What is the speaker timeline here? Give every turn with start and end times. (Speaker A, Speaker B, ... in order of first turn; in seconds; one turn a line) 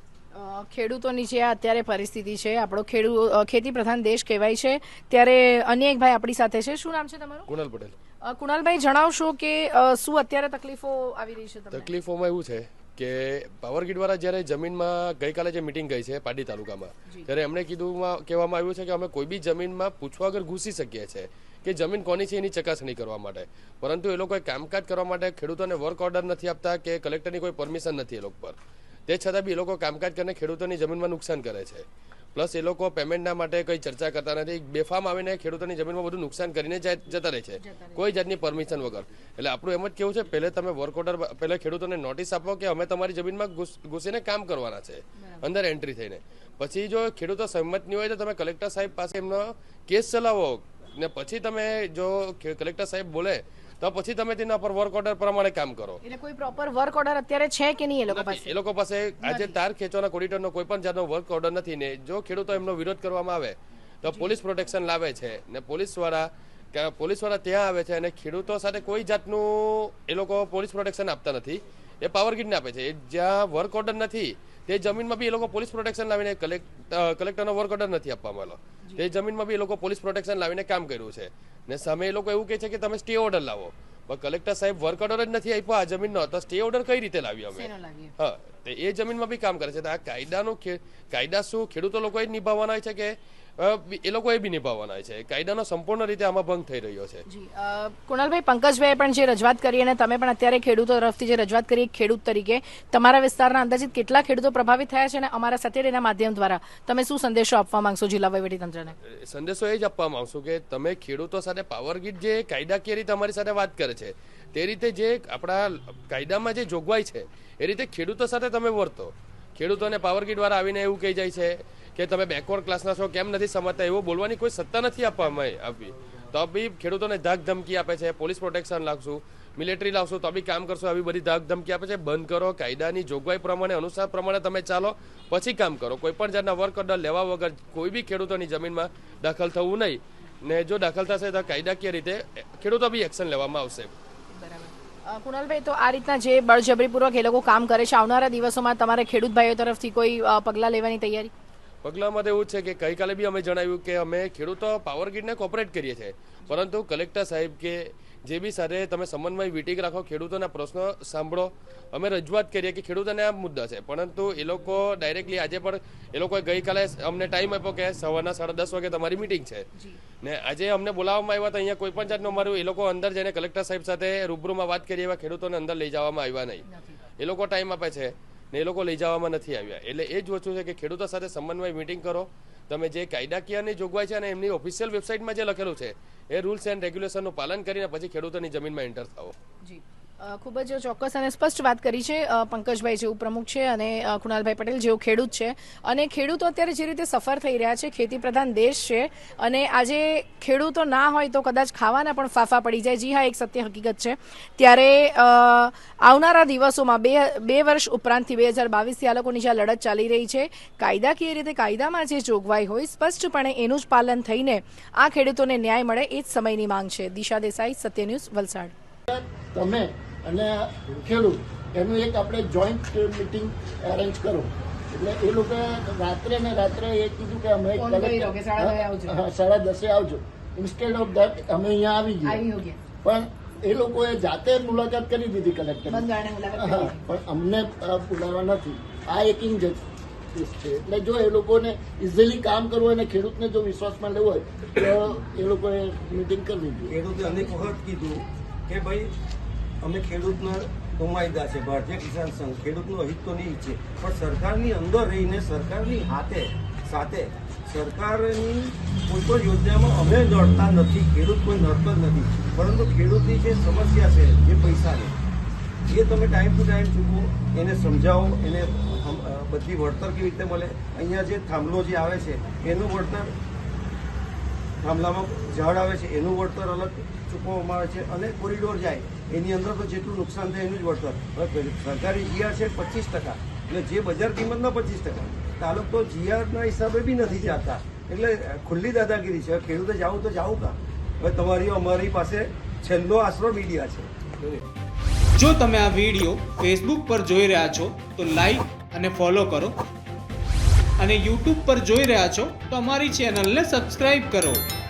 Speaker A: 0.3-7.5
Speaker B: 7.5-7.9
Speaker A: 8.2-11.9
Speaker B: 11.7-56.0
Speaker A: 37.6-38.0
Speaker A: 45.2-45.5
Speaker A: 56.0-58.5
Speaker B: 58.1-97.2
Speaker A: 59.2-59.5
Speaker A: 64.1-64.3
Speaker A: 87.5-88.1
Speaker A: 97.3-108.9
Speaker B: 109.1-143.9
Speaker A: 144.3-151.3
Speaker B: 151.8-169.7
Speaker B: 170.2-176.6
Speaker A: 176.7-177.0
Speaker B: 177.2-189.3
Speaker A: 189.6-218.7
Speaker C: 219.1-232.4
Speaker A: 227.8-229.2
Speaker A: 232.2-232.8
Speaker C: 233.0-247.0
Speaker A: 235.9-237.1
Speaker D: 246.9-249.1
Speaker D: 249.8-265.1
Speaker D: 265.9-273.3
Speaker D: 274.8-294.6
Speaker E: 295.3-299.8
Speaker E: 301.0-304.6